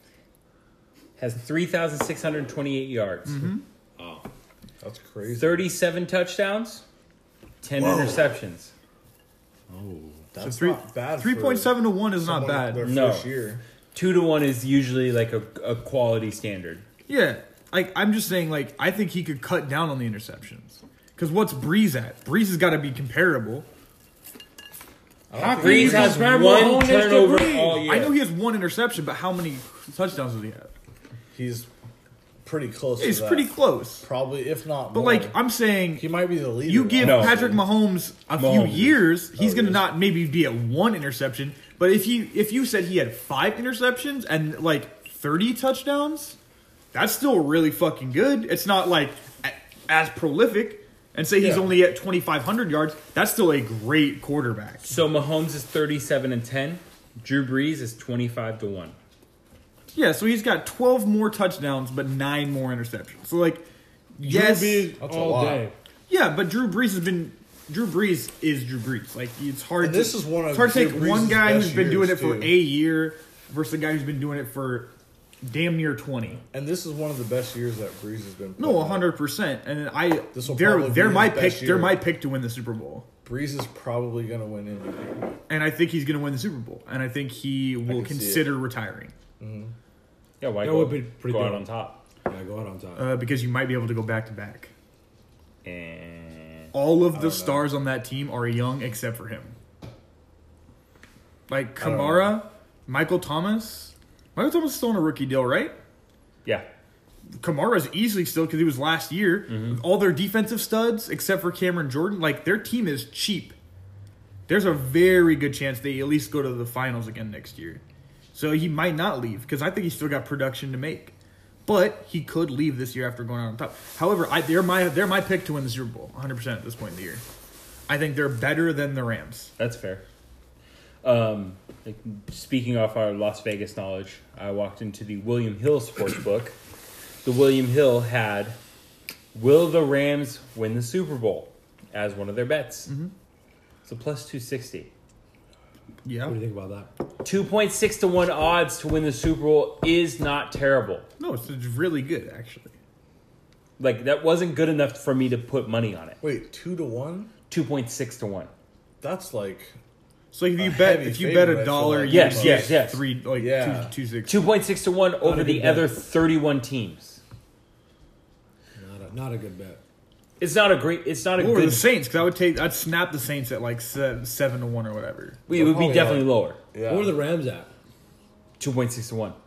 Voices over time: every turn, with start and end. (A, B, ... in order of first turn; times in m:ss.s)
0:01.2-0:03.5 A
0:03.3-0:03.6 B
0:04.0-0:04.2 C
0:04.8-0:05.6 D
0:05.3-0:06.8 A
0:07.6-0:08.7 A
0:09.7-0:10.2 C
0:10.3-0:13.6 D
0:10.4-0:12.9 B
0:12.8-0:13.3 A
0:13.9-0:16.8 A
0:17.1-0:23.7 B
0:25.3-0:26.2 D
0:25.4-0:27.8 C
0:25.6-0:28.2 A
0:27.9-0:30.7 B
0:31.3-0:31.7 D
0:32.4-0:35.4 D
0:33.0-0:34.1 B
0:34.9-0:36.1 B
0:36.0-0:37.6 D
0:36.6-0:46.4 B
0:37.0-0:37.5 A
0:38.4-0:39.1 A
0:39.4-0:39.9 D
0:46.9-0:54.9 B
0:51.4-0:51.7 D
0:54.8-0:59.0 A
0:59.9-1:05.0 B
1:04.2-1:05.7 D
1:05.0-1:05.7 C
1:06.1-1:14.9 B
1:09.8-1:12.6 D
1:15.4-1:16.4 B
1:16.5-1:19.1 D
1:18.6-1:23.1 B
1:20.3-1:22.0 D
1:23.2-1:25.2 D
1:25.5-1:29.2 B
1:27.9-1:28.5 D
1:29.4-1:29.7 D
1:30.4-1:32.0 A
1:30.6-1:31.6 C
1:32.3-1:33.1 C
1:33.0-1:34.7 B
1:35.6-1:36.7 A
1:36.7-1:39.6 B
1:37.1-1:37.7 D
1:41.5-1:45.8 B
1:41.8-1:42.3 D
1:47.4-1:53.6 B
1:49.5-1:49.8 A
1:54.5-1:57.8 B
1:58.3-2:01.2 B
2:01.7-2:07.2 B
2:07.9-2:09.5 B
2:09.6-2:10.0 A
2:11.0-2:16.6 A
2:17.2-2:18.6 A
2:19.3-2:22.9 A
2:22.9-2:23.1 B
2:23.8-2:24.9 A
2:26.0-2:26.4 B
2:26.3-2:26.9 C
2:27.2-2:31.1 A
2:31.2-2:32.7 B
2:33.8-2:36.2 A
2:36.2-2:37.3 D
2:37.5-2:38.5 A
2:39.0-2:39.8 D
2:40.3-2:44.5 B
2:40.6-2:42.8 D
2:42.1-2:43.0 A
2:43.4-2:43.9 D
2:44.3-2:47.2 A
2:45.2-2:45.9 C
2:48.8-2:49.8 C
2:50.4-2:51.9 A
2:51.4-2:55.4 B
2:55.5-2:56.6 A
2:55.5-2:57.2 D
2:56.9-2:57.7 C
2:58.6-2:59.4 A